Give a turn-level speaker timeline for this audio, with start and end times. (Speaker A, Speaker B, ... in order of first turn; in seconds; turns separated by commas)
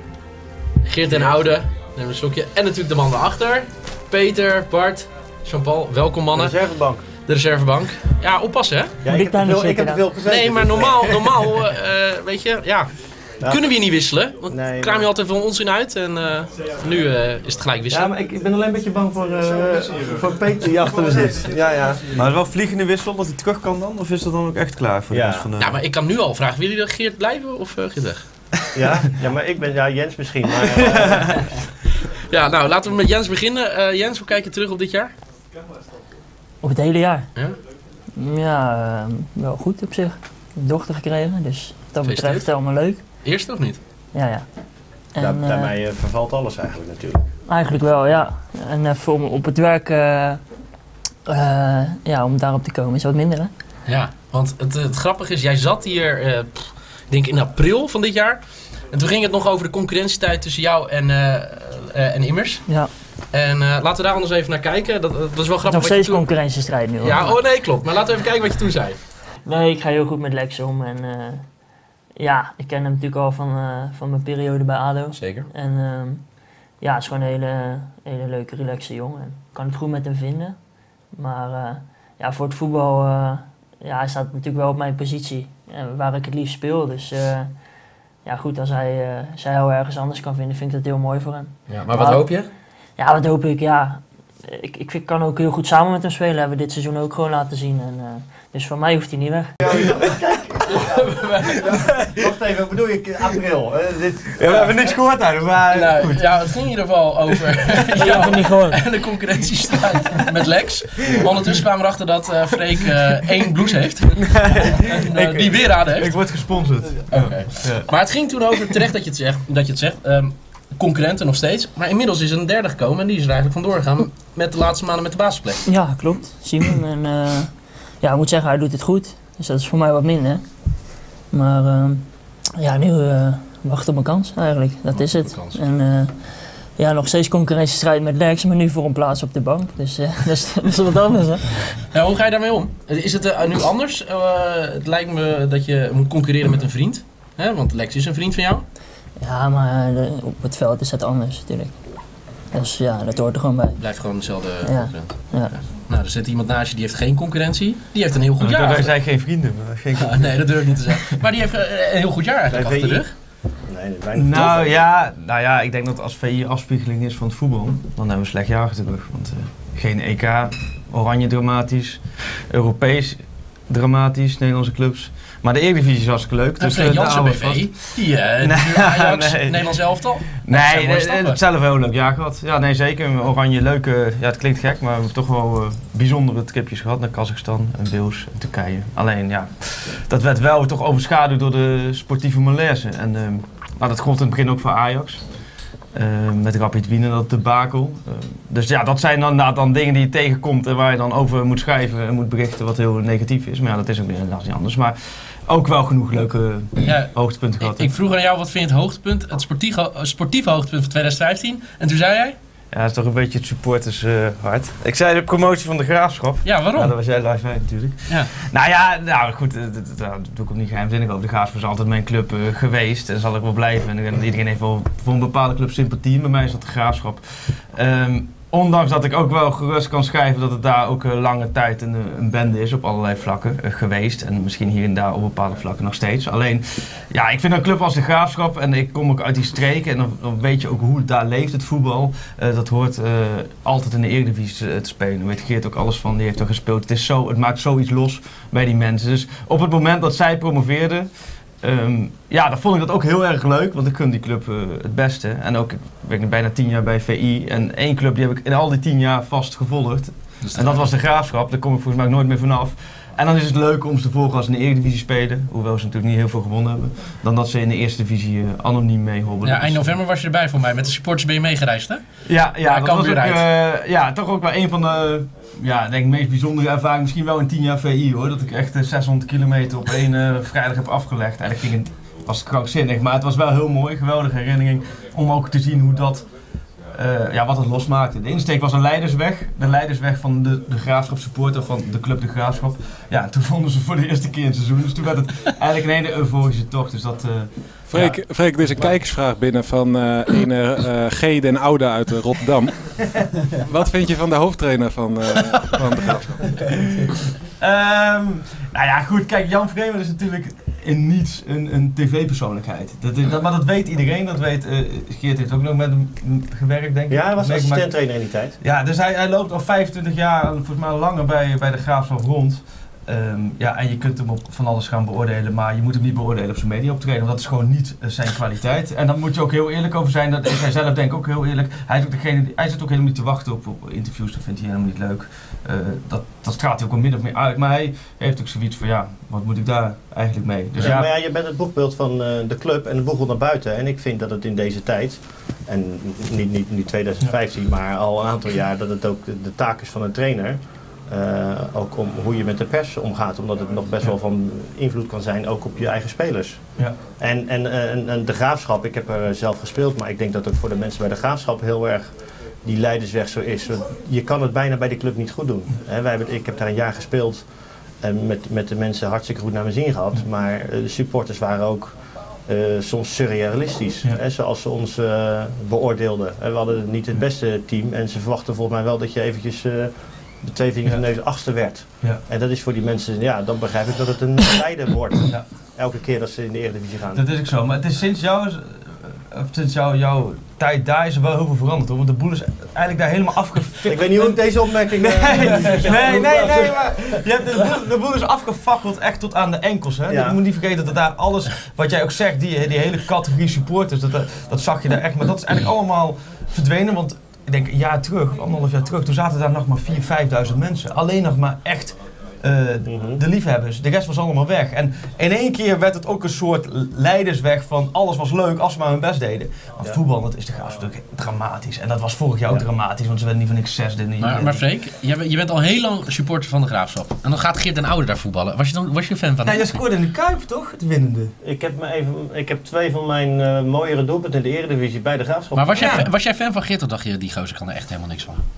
Speaker A: 0.8-9.0, Speaker B: 1.1-1.5, Speaker B: 6.3-7.0, Speaker B: 9.0-11.4, Speaker C: 9.1-10.0, Speaker A: 10.3-12.9, Speaker B: 13.4-13.7, Speaker A: 13.4-18.1, Speaker B: 14.5-15.1, Speaker B: 17.9-22.0, Speaker D: 22.1-25.8, Speaker B: 25.1-25.5, Speaker A: 25.6-28.3, Speaker B: 28.7-31.5, Speaker A: 32.3-35.1, Speaker C: 36.6-37.3, Speaker C: 38.2-43.0, Speaker A: 42.0-43.8, Speaker C: 44.1-44.5, Speaker C: 45.1-45.8, Speaker B: 45.2-47.2, Speaker C: 47.5-50.4, Speaker C: 51.3-53.5, Speaker A: 53.9-69.0, Speaker C: 65.7-67.4, Speaker C: 69.5-71.5, Speaker C: 72.2-76.3, Speaker A: 75.1-75.5, Speaker C: 76.8-80.6, Speaker C: 81.1-87.7, Speaker C: 88.2-92.2, Speaker A: 91.7-92.5, Speaker C: 93.0-99.5, Speaker B: 99.6-101.1, Speaker D: 99.6-99.9, Speaker A: 100.7-101.7, Speaker D: 101.7-102.3, Speaker B: 102.1-104.9, Speaker D: 104.3-106.6, Speaker A: 105.7-116.1, Speaker C: 108.0-108.8, Speaker D: 111.1-111.5, Speaker D: 114.2-117.9, Speaker A: 117.1-125.7, Speaker C: 125.7-141.8, Speaker A: 134.9-135.6, Speaker A: 141.9-148.7, Speaker C: 149.2-152.0, Speaker C: 152.5-153.8, Speaker A: 153.8-158.9, Speaker C: 154.6-155.5, Speaker D: 158.4-161.1, Speaker A: 160.0-163.1, Speaker B: 162.5-163.1, Speaker B: 163.6-164.8, Speaker D: 164.1-195.3, Speaker A: 176.6-181.4, Speaker D: 195.9-207.9, Speaker A: 206.8-212.4, Speaker D: 212.7-270.0, Speaker A: 216.4-216.9, Speaker A: 260.4-260.9, Speaker A: 269.4-273.4, Speaker D: 272.3-286.3, Speaker D: 286.9-297.9, Speaker E: 297.9-306.7, Speaker A: 298.0-298.2, Speaker D: 307.6-318.0, Speaker B: 317.1-318.6, Speaker D: 318.6-341.1, Speaker B: 340.8-367.5, Speaker B: 368.0-387.2, Speaker D: 387.1-424.6, Speaker B: 393.9-397.2, Speaker B: 400.1-400.4, Speaker B: 412.9-413.2, Speaker A: 424.2-429.8, Speaker D: 429.4-431.4, Speaker B: 431.4-436.0, Speaker A: 435.5-438.4, Speaker D: 435.8-436.1